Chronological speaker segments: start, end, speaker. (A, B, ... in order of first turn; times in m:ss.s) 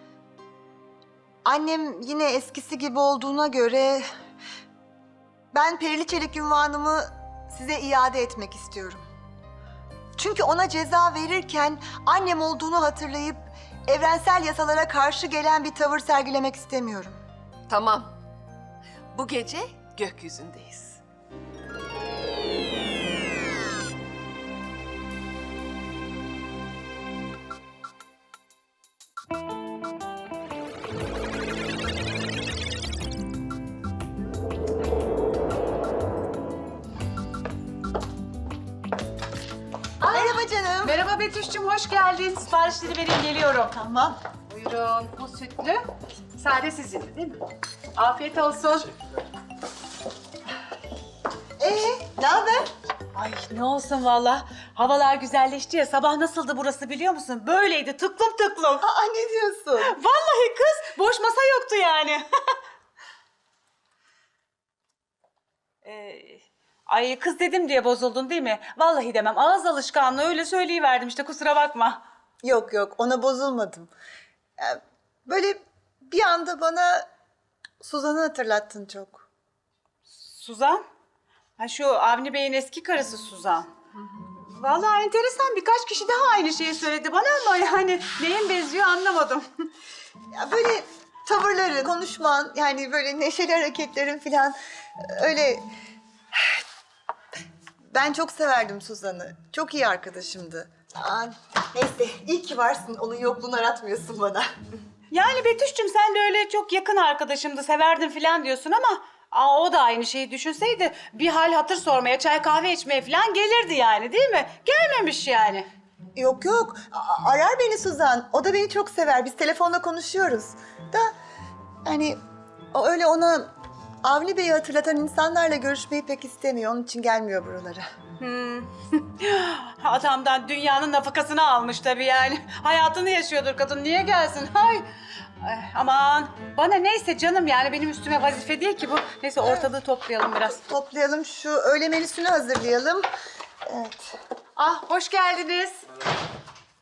0:01.4-0:04.1 A
0:05.5-0:09.0 A
0:10.2-0:17.2 A
0:17.7-0:18.1 B
0:19.1-0:21.0 B
0:40.0-0:43.8 C
0:40.1-0:41.0 A
0:43.7-0:44.2 A
0:44.5-0:45.8 C
0:46.4-0:47.4 C
0:48.0-0:48.9 C
0:51.6-0:52.7 A
0:53.1-0:58.8 C
0:58.8-0:59.9 A
0:59.8-1:02.2 C
1:05.8-1:12.0 C
1:12.4-1:13.9 A
1:14.6-1:17.1 A
1:17.8-1:19.2 A
1:20.1-1:20.8 C
1:21.6-1:23.7 C
1:24.5-1:29.4 C
1:30.3-1:35.6 A
1:36.3-1:36.6 A
1:37.9-1:44.5 A
1:45.1-1:55.7 C
1:56.1-2:01.1 A
2:01.8-2:02.2 A
2:02.7-2:03.5 A
2:04.0-2:07.8 A
2:08.2-2:14.8 C
2:15.4-2:20.6 C
2:20.5-2:23.1 A
2:23.6-2:24.2 A
2:24.6-2:25.8 C